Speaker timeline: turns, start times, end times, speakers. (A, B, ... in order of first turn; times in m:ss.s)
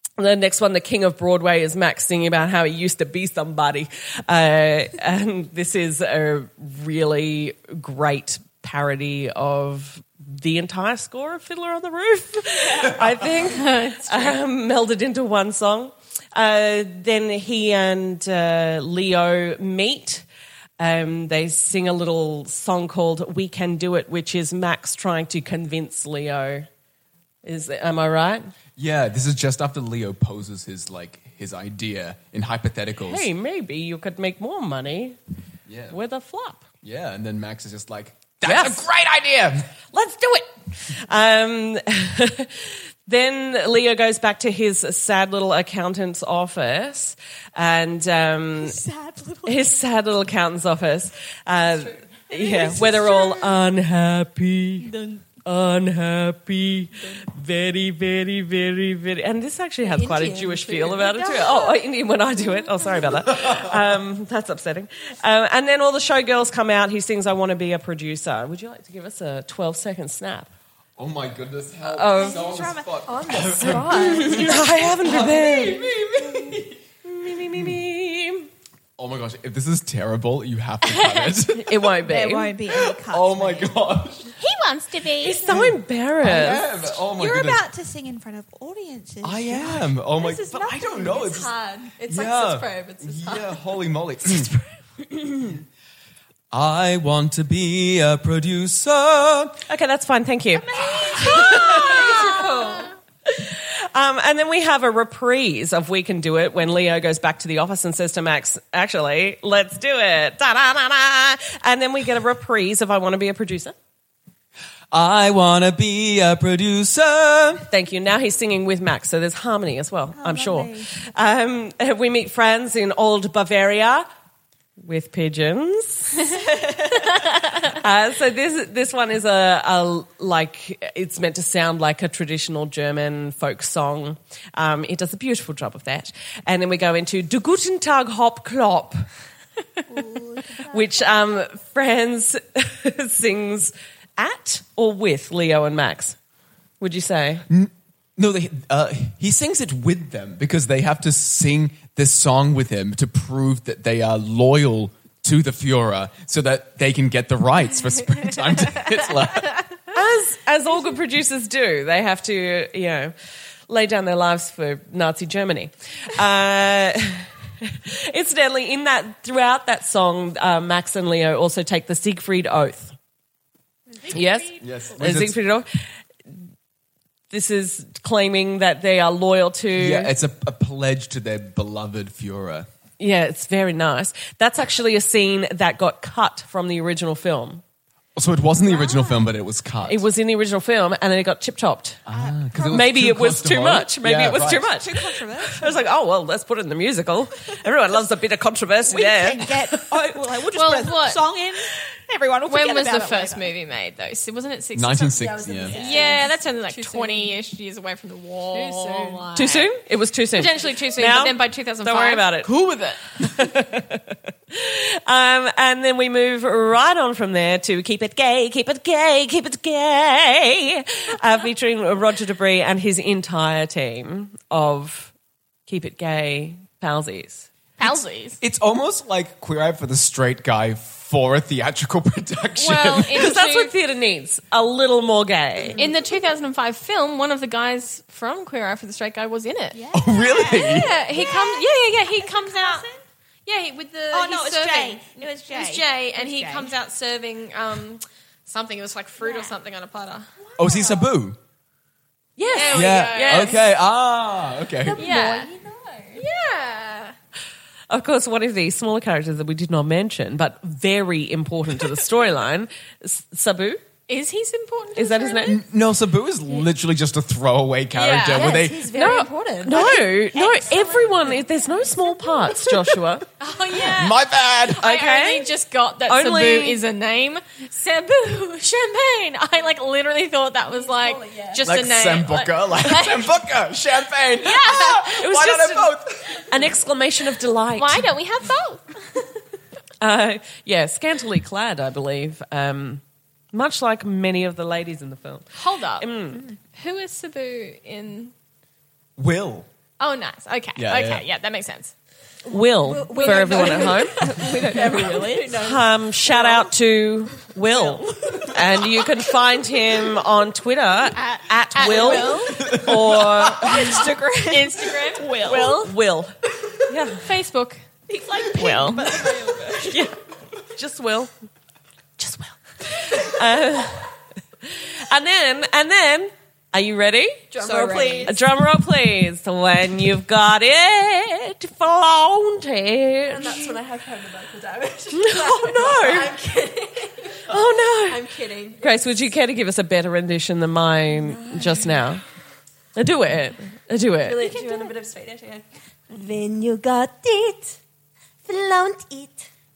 0:00.2-0:20.2 A
0:12.8-0:13.3 B
0:13.4-0:14.4 C
0:20.8-0:26.7 A
0:27.4-0:28.5 A
0:28.8-0:33.3 B
0:33.1-0:35.2 A
0:35.7-0:36.0 B
0:35.9-0:36.6 A
0:36.8-0:39.7 B
0:38.4-0:38.9 A
0:39.9-0:48.8 A
0:48.6-0:49.8 D
0:49.4-0:54.9 A
0:52.3-0:53.6 D
0:54.8-0:55.4 D
0:55.4-1:10.5 A
0:59.8-1:01.8 E
1:03.3-1:04.0 B
1:11.0-1:16.8 B
1:11.8-1:12.5 A
1:12.2-1:13.8 D
1:13.0-1:14.6 E
1:13.9-1:18.5 A
1:17.5-1:17.8 B
1:19.0-1:21.9 B
1:20.9-1:21.3 C
1:21.5-1:22.6 A
1:22.0-1:23.8 D
1:22.9-1:24.3 B
1:24.4-1:25.5 C
1:25.2-1:26.7 A
1:25.5-1:27.7 B
1:26.6-1:31.3 D
1:29.2-1:31.5 B
1:30.2-1:33.7 E
1:32.1-1:34.5 B
1:36.5-1:39.6 B
1:39.7-1:42.4 A
1:40.6-1:42.3 D
1:40.9-1:42.9 E
1:43.3-1:53.8 A
1:54.9-1:57.6 B
1:57.7-2:04.1 A
2:00.1-2:00.9 D
2:04.8-2:06.4 A
2:07.0-2:19.1 A
2:19.9-2:21.1 D
2:20.6-2:26.2 A
2:26.8-2:27.5 A
2:27.5-2:39.7 B
2:39.9-2:43.1 A
2:43.7-2:52.9 A
2:54.0-2:54.5 D
2:54.1-2:55.9 A
2:54.6-2:55.4 B
2:57.3-3:00.1 A
2:59.8-3:02.7 B
3:03.0-3:07.6 A
3:08.2-3:10.1 B
3:09.8-3:12.0 A
3:12.1-3:14.8 B
3:12.1-3:12.8 D
3:12.6-3:20.1 A
3:14.7-3:15.8 D
3:18.8-3:23.5 D
3:20.5-3:21.2 C
3:22.5-3:29.7 C
3:24.8-3:25.8 B
3:25.2-3:27.3 E
3:25.7-3:26.3 D
3:28.6-3:29.2 E
3:28.7-3:29.3 D
3:29.4-3:32.5 A
3:30.3-3:33.0 C
3:33.2-3:45.1 A
3:45.7-3:47.5 A
3:47.8-3:48.4 C
3:48.4-3:53.3 B
3:52.6-3:53.7 C
3:53.1-3:55.8 A
3:55.6-3:56.0 D
3:55.8-3:59.8 C
3:59.7-4:03.0 D
3:59.9-4:01.0 B
4:00.5-4:02.9 C
4:03.5-4:10.3 C
4:04.1-4:06.7 D
4:09.2-4:09.6 D
4:10.4-4:11.0 E
4:10.6-4:11.4 B
4:12.4-4:13.6 A
4:12.5-4:13.6 C
4:12.7-4:15.1 B
4:14.8-4:16.2 E
4:15.0-4:15.5 C
4:16.1-4:17.2 C
4:17.9-4:23.8 A
4:24.1-4:25.6 C
4:25.0-4:25.6 A
4:25.4-4:28.8 B
4:28.0-4:28.6 C
4:28.3-4:32.5 E
4:28.9-4:33.3 A
4:33.4-4:43.3 C
4:33.8-4:34.8 B
4:34.8-4:35.5 A
4:36.1-4:36.8 A
4:40.7-4:41.8 E
4:41.6-4:46.7 B
4:44.4-4:45.1 C
4:45.1-4:48.1 A
4:47.8-4:49.0 C
4:50.0-4:53.0 A
4:53.5-4:55.5 A
4:55.6-4:56.1 C
4:56.0-4:56.5 A
4:56.8-4:58.3 C
4:59.2-4:59.7 B
5:00.0-5:01.9 C
5:00.8-5:01.2 B
5:02.5-5:14.1 A
5:02.8-5:06.8 E
5:03.1-5:05.6 D
5:03.4-5:04.0 C
5:07.5-5:08.0 E
5:11.1-5:15.9 D
5:11.8-5:12.6 C
5:12.6-5:13.7 B
5:14.5-5:15.8 C
5:15.4-5:16.3 A
5:16.9-5:17.3 A
5:17.2-5:17.8 C
5:18.1-5:20.1 D
5:18.5-5:19.0 C
5:19.9-5:20.2 A
5:20.7-5:21.3 A
5:22.2-5:24.1 A
5:24.6-5:27.5 A
5:27.5-5:28.4 E
5:27.6-5:28.4 D
5:28.3-5:33.8 A
5:33.3-5:39.3 E
5:35.1-5:36.3 A
5:37.5-5:42.2 A
5:41.2-5:42.0 E
5:43.0-5:44.7 A
5:44.2-5:47.8 E
5:48.4-5:49.5 E